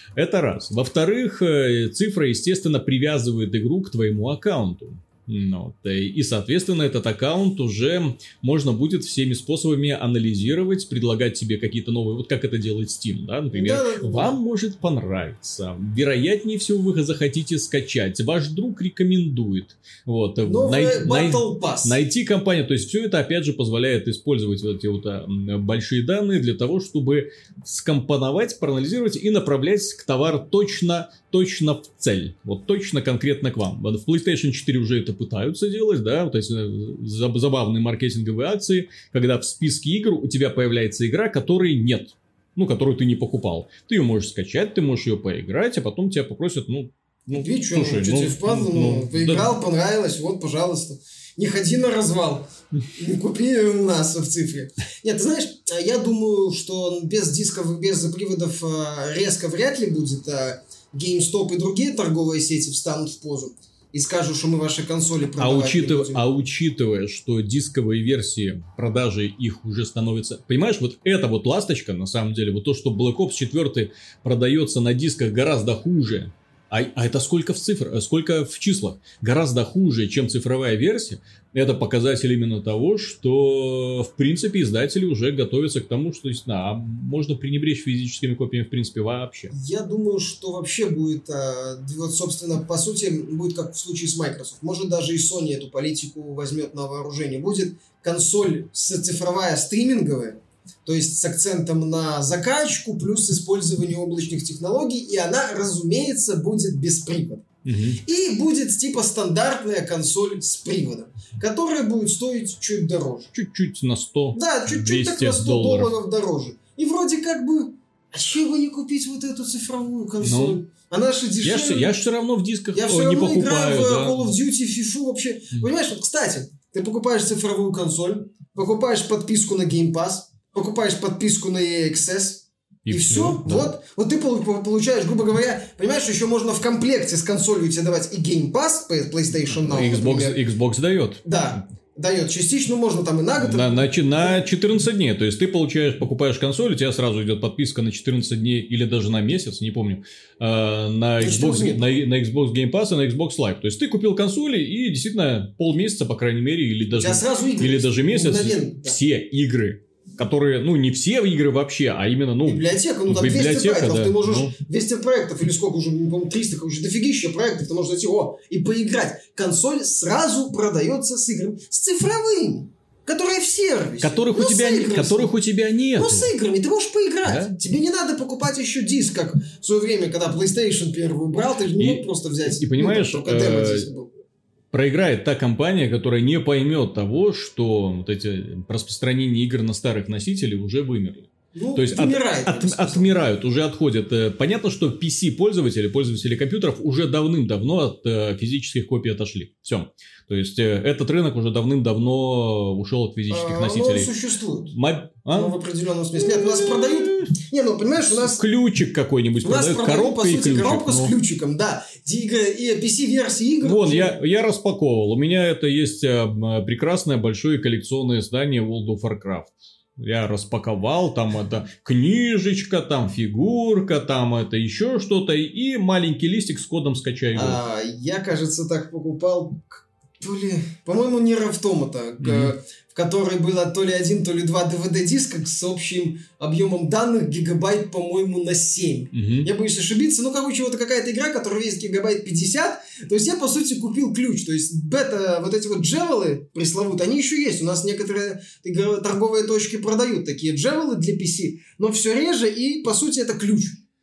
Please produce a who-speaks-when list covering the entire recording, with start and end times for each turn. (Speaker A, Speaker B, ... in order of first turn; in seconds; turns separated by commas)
Speaker A: 0.1-49.5, Speaker B: 13.5-14.4, Speaker B: 20.4-22.0, Speaker B: 47.3-66.2, Speaker A: 65.4-89.5, Speaker B: 89.5-107.4, Speaker A: 107.6-108.0, Speaker B: 108.0-113.3, Speaker A: 113.3-115.9, Speaker B: 114.3-122.0, Speaker A: 120.2-120.6, Speaker A: 121.4-124.2, Speaker B: 122.7-140.4, Speaker A: 132.8-133.7, Speaker A: 139.4-141.2, Speaker B: 141.2-144.4, Speaker A: 143.4-164.6, Speaker B: 151.2-151.9, Speaker B: 156.9-159.0, Speaker B: 162.4-175.3, Speaker A: 174.0-176.3, Speaker B: 175.9-184.1, Speaker A: 177.2-177.5, Speaker A: 181.8-183.9, Speaker A: 184.7-204.1, Speaker B: 191.5-193.2, Speaker B: 203.3-204.8, Speaker A: 204.7-205.6, Speaker B: 205.3-208.4, Speaker A: 206.1-207.3, Speaker A: 208.0-211.1, Speaker B: 209.4-214.1, Speaker A: 213.6-227.6, Speaker B: 227.3-253.8, Speaker A: 232.2-232.5, Speaker A: 239.1-239.5